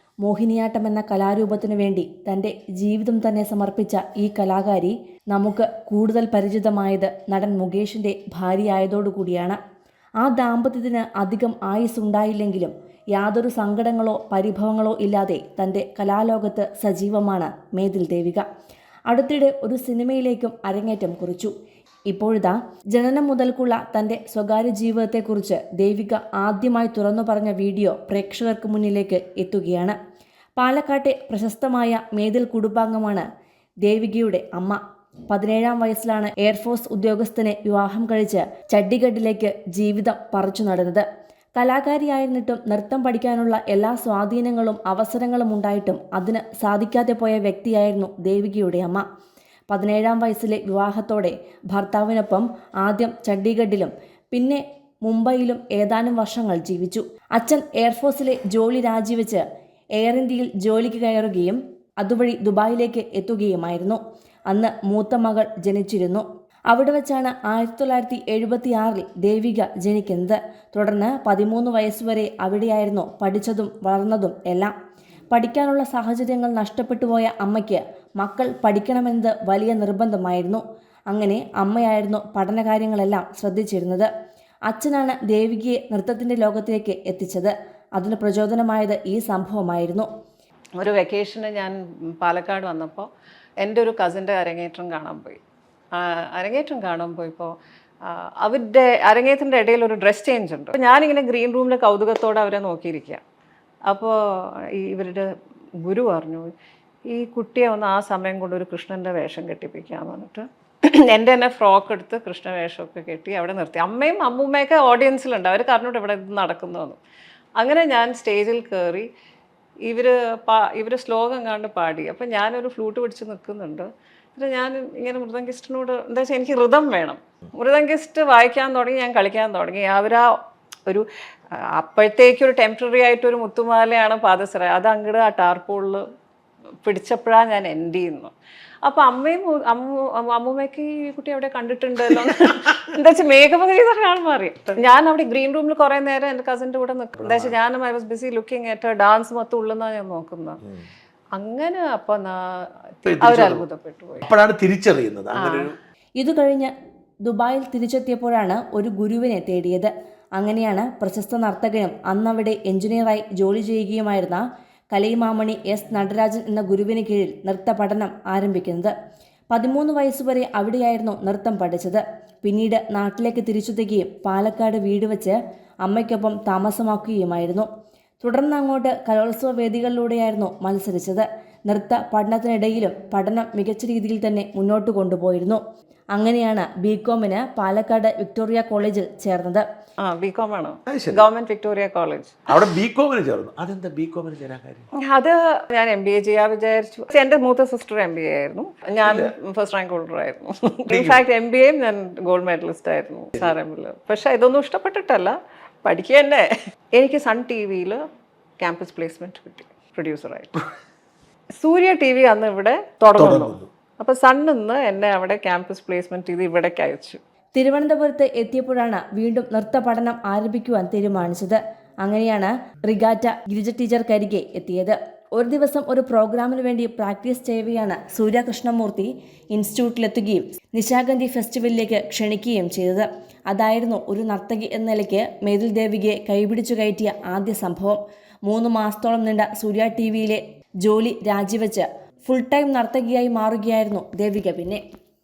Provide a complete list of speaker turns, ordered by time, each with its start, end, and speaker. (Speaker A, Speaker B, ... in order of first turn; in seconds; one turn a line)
Speaker A: 0.2-9.6
Speaker A: 10.2-18.4
Speaker A: 19.1-21.5
Speaker A: 22.1-29.9
Speaker A: 30.6-33.2
Speaker A: 33.8-41.0
Speaker A: 41.5-49.0
Speaker A: 49.7-59.4
Speaker A: 60.0-64.0
Speaker A: 64.5-74.7
Speaker A: 75.3-84.1
Speaker A: 84.7-90.1
Speaker B: 90.8-93.1
Speaker B: 93.6-95.4
Speaker B: 95.9-103.2
Speaker B: 103.9-105.3
Speaker B: 105.8-106.5
Speaker B: 107.1-117.0
Speaker B: 117.6-119.1
Speaker B: 119.8-130.3
Speaker B: 131.7-136.0
Speaker B: 136.8-150.6
Speaker C: 147.2-147.5
Speaker B: 151.3-154.2
Speaker C: 153.1-153.6
Speaker C: 154.2-155.7
Speaker B: 155.3-155.7
Speaker A: 156.2-156.7
Speaker A: 157.2-164.4
Speaker A: 164.9-168.9
Speaker A: 169.5-177.7
Speaker A: 178.2-185.6
Speaker A: 186.1-189.6
Speaker B: 190.0-192.4
Speaker C: 190.9-191.2
Speaker C: 192.5-194.9
Speaker B: 195.0-208.0
Speaker C: 199.0-199.3
Speaker C: 200.9-201.2
Speaker B: 208.6-210.6
Speaker B: 211.6-217.2
Speaker C: 213.2-213.7
Speaker A: 217.5-244.8